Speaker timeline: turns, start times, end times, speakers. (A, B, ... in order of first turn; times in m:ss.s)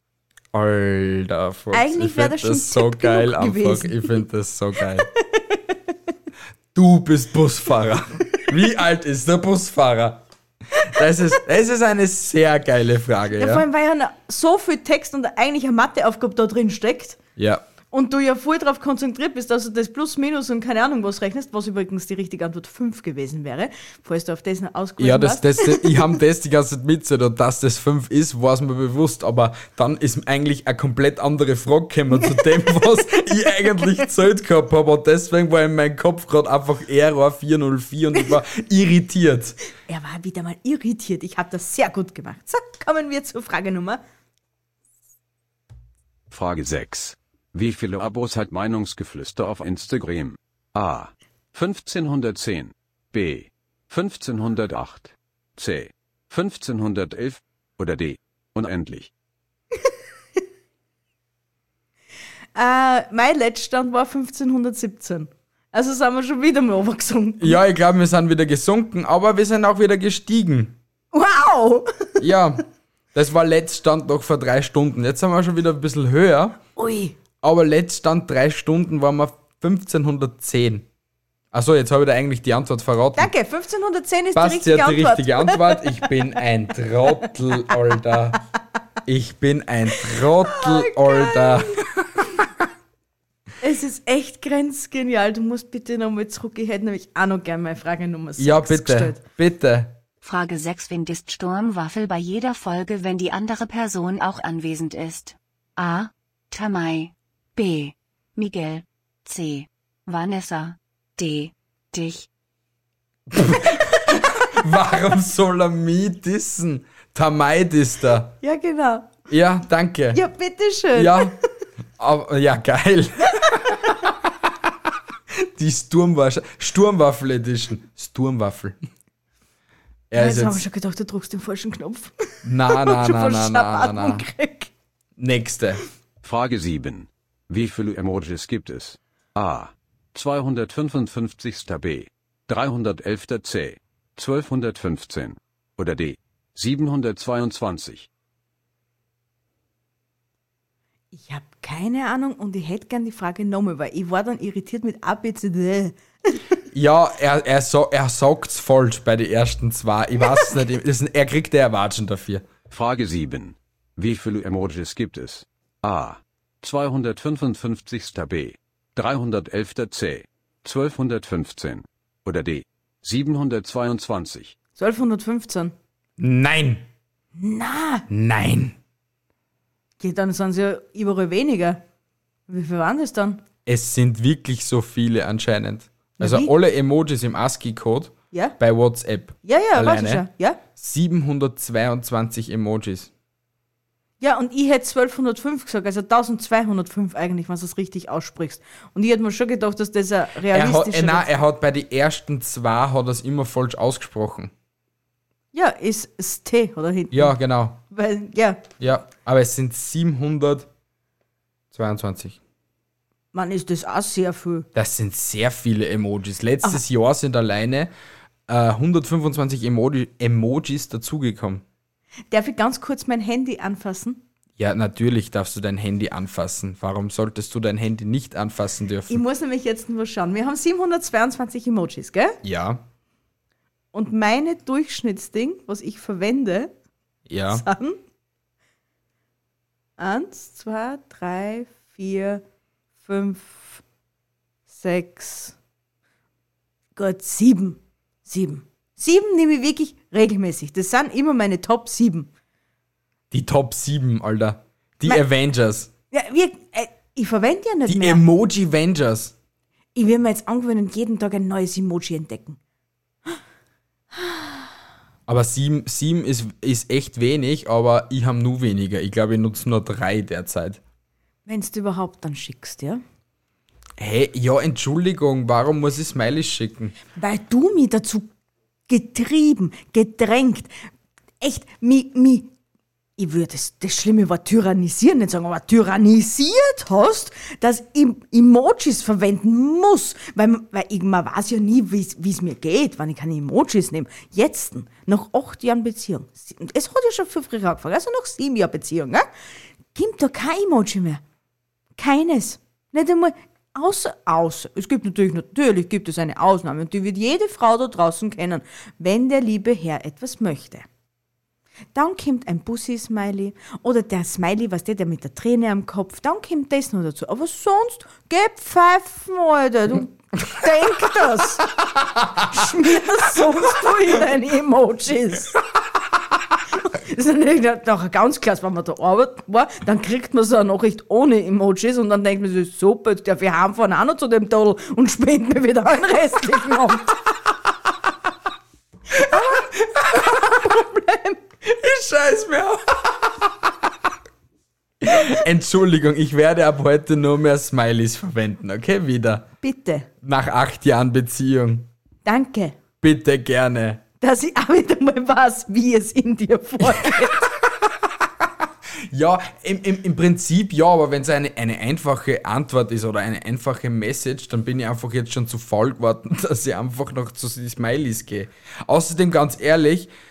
0:00.5-0:05.1 A
0:01.7-0:04.2 B
0:05.1-0:05.8 B
0:06.7-0:10.2 A
0:10.8-0:13.6 A
0:13.4-0:17.2 B
0:17.4-0:17.6 A
0:17.9-0:26.1 B
0:25.0-0:39.6 A
0:32.1-0:33.9 B
0:39.9-0:44.0 B
0:46.3-0:59.1 C
1:02.6-1:07.6 B
1:07.4-1:10.8 A
1:11.1-1:12.1 B
1:12.2-1:12.6 A
1:13.1-1:16.6 A
1:16.8-1:17.2 B
1:17.4-1:20.9 A
1:21.5-1:23.3 A
1:23.2-1:26.1 B
1:24.4-1:28.4 A
1:29.0-1:32.4 A
1:30.5-1:31.8 B
1:33.6-1:39.2 B
1:38.4-1:40.0 A
1:40.2-1:52.3 D
1:53.3-1:58.4 A
1:58.4-1:59.1 B
1:59.3-2:00.2 A
2:00.1-2:01.4 B
2:00.9-2:01.4 A
2:02.0-2:04.0 A
2:03.4-2:03.9 B
2:05.3-2:08.8 A
2:10.1-2:10.6 A
2:10.2-2:14.7 B
2:12.4-2:14.3 A
2:15.2-2:15.8 A
2:16.2-2:28.1 C
2:31.1-2:36.4 B
2:36.7-2:42.5 A
2:42.7-2:54.6 C
2:54.8-2:55.7 B
2:56.2-2:56.8 A
2:57.4-2:58.1 B
2:58.1-2:58.8 A
3:00.0-3:01.8 B
3:02.5-3:03.4 B
3:03.7-3:13.1 A
3:06.2-3:06.5 B
3:08.3-3:08.6 B
3:09.4-3:10.6 B
3:14.2-3:21.3 B
3:20.5-3:24.5 A
3:25.5-3:27.4 B
3:27.1-3:27.8 A
3:27.9-3:28.7 B
3:28.8-3:30.7 A
3:31.7-3:32.4 A
3:33.3-3:34.7 B
3:34.8-3:37.9 A
3:38.5-3:41.6 A
3:42.3-3:44.2 B
3:44.6-3:49.2 A
3:49.1-3:52.4 B
3:52.4-3:52.8 A
3:53.9-3:56.7 B
3:57.3-3:57.6 A
3:57.5-3:58.0 B
4:00.0-4:02.4 B
4:03.0-4:03.8 B
4:04.7-4:05.6 B
4:07.0-4:12.3 B
4:13.3-4:15.9 A
4:16.1-4:18.2 B
4:17.9-4:19.3 A
4:20.0-4:22.6 B
4:24.2-4:24.7 B
4:25.3-4:30.8 A
4:31.5-4:33.0 B
4:34.0-4:37.0 A
4:37.2-4:38.3 B
4:38.9-4:40.7 B
4:41.4-4:42.5 B
4:43.2-4:59.3 B
4:59.9-5:01.2 B
5:02.0-5:10.9 B
5:11.9-5:21.7 B
5:22.4-5:25.6 B
5:26.7-5:37.2 B
5:39.2-5:41.4 B
5:39.2-5:40.7 A
5:41.6-5:43.7 A
5:45.0-5:49.5 A
5:49.6-5:50.1 B
5:50.2-5:51.9 A
5:52.2-5:52.8 B
5:53.0-5:54.0 A
5:54.2-5:57.5 B
5:56.9-5:58.5 A
5:59.1-6:10.1 A